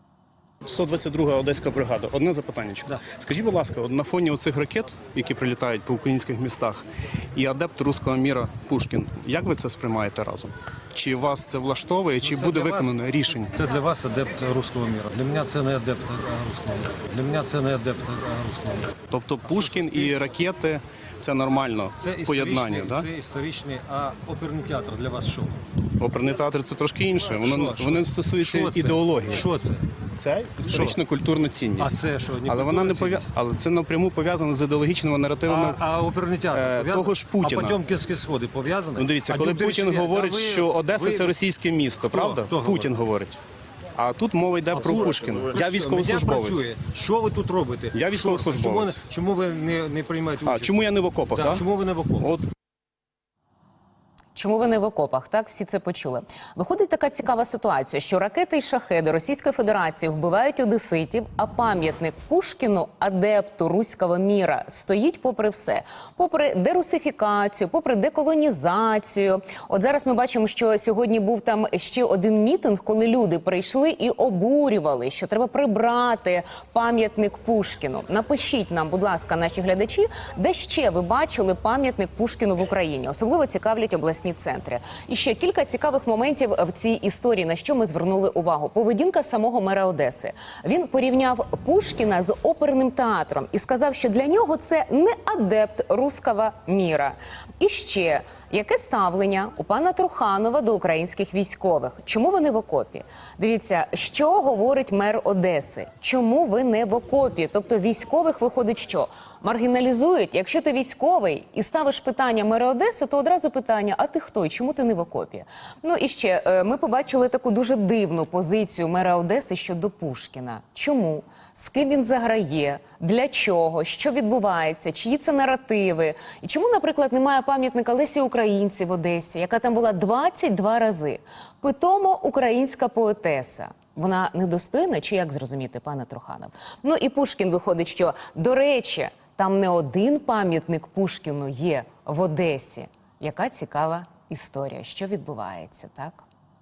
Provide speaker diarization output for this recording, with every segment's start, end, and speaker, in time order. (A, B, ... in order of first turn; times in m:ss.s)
0:00.6-0:13.6 A
0:12.2-0:20.3 B
0:19.1-0:23.1 A
0:22.0-0:25.6 B
0:26.0-0:29.5 A
0:27.4-0:29.8 B
0:30.2-0:35.8 A
0:30.7-0:31.0 B
0:31.8-0:33.3 B
0:35.5-0:41.3 B
0:36.5-0:37.8 A
0:39.0-0:43.4 A
0:42.0-0:42.9 B
0:44.0-0:46.6 A
0:44.7-0:52.3 B
0:47.9-0:49.0 A
0:50.4-0:51.6 A
0:52.2-0:52.5 A
0:54.4-2:26.2 C